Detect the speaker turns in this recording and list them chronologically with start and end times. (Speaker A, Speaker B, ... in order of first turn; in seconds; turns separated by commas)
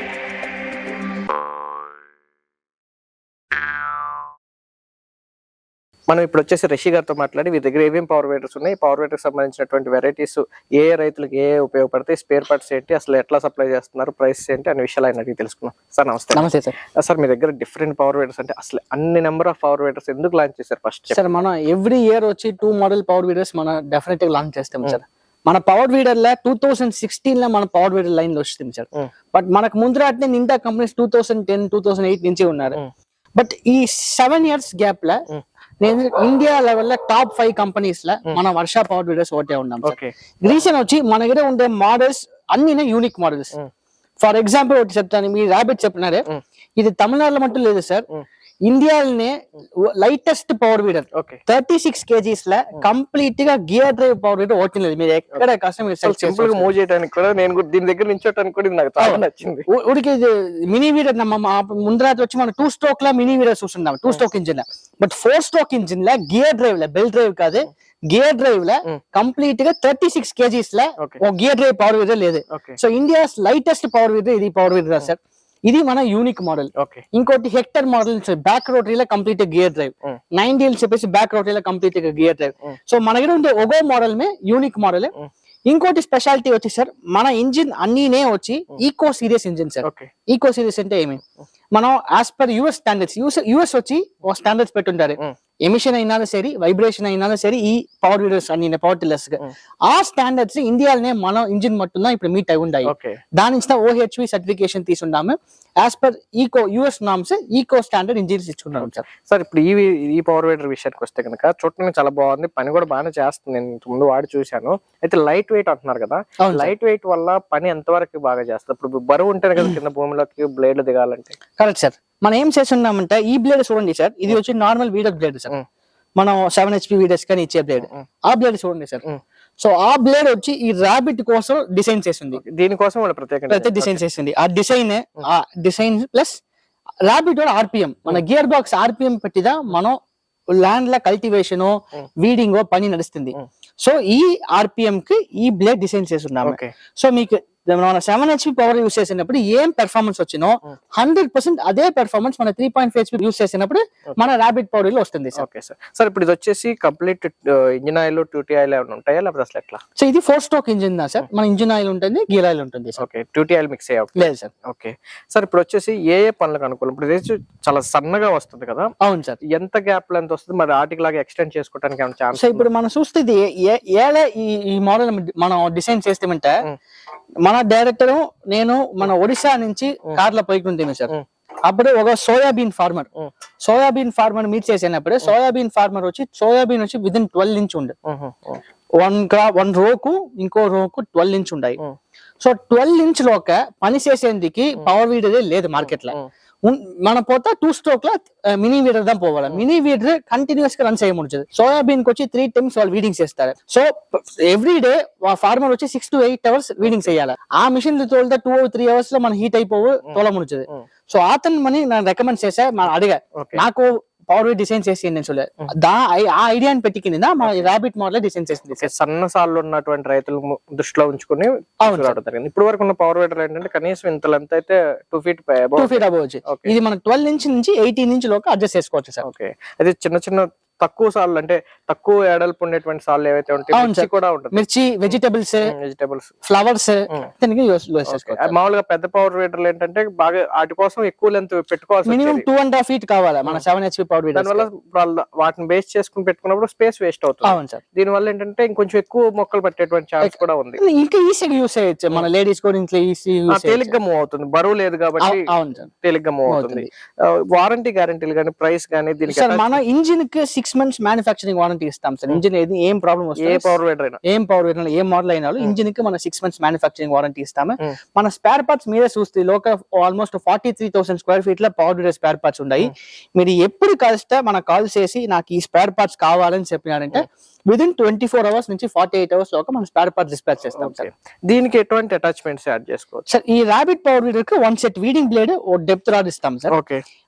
Speaker A: 6.1-21.4, Speaker B: 16.3-16.7, Speaker B: 21.1-32.8, Speaker B: 33.4-35.2, Speaker B: 35.8-43.5, Speaker A: 39.8-40.6, Speaker B: 44.2-48.0, Speaker B: 48.6-56.7, Speaker A: 51.1-51.4, Speaker A: 56.0-59.6, Speaker B: 59.0-85.1, Speaker A: 72.5-72.8, Speaker A: 76.8-77.0, Speaker B: 85.7-91.2, Speaker A: 89.8-90.1, Speaker B: 91.7-109.0, Speaker A: 102.8-103.2, Speaker A: 108.8-121.3, Speaker B: 116.4-116.7, Speaker B: 121.6-125.5, Speaker B: 126.2-129.0, Speaker B: 129.6-132.4, Speaker A: 132.4-134.0, Speaker B: 133.5-136.4, Speaker B: 137.1-140.0, Speaker B: 140.6-155.4, Speaker A: 146.4-146.7, Speaker A: 155.3-159.8, Speaker B: 160.0-163.0, Speaker A: 163.0-168.9, Speaker B: 164.2-164.5, Speaker B: 169.0-169.4, Speaker A: 169.4-172.7, Speaker B: 172.3-176.6, Speaker B: 177.4-181.1, Speaker B: 181.7-183.1, Speaker B: 183.6-187.9, Speaker A: 188.1-188.6, Speaker B: 189.0-191.8, Speaker B: 192.4-218.9, Speaker A: 195.8-196.3, Speaker A: 206.8-207.1, Speaker A: 213.4-213.6, Speaker A: 217.4-217.7, Speaker A: 218.8-226.7, Speaker B: 221.8-222.2, Speaker B: 225.8-229.2, Speaker A: 229.2-234.6, Speaker B: 233.7-235.7, Speaker A: 235.7-236.3, Speaker B: 236.4-238.5, Speaker A: 238.1-242.4, Speaker B: 242.1-244.7, Speaker A: 244.3-250.8, Speaker B: 247.4-247.8, Speaker B: 250.2-253.9, Speaker A: 253.5-255.4, Speaker B: 255.2-255.9, Speaker A: 256.0-259.8, Speaker B: 256.5-256.9, Speaker B: 259.3-281.1, Speaker A: 263.4-264.2, Speaker A: 280.7-283.2, Speaker B: 283.3-286.7, Speaker A: 286.7-287.0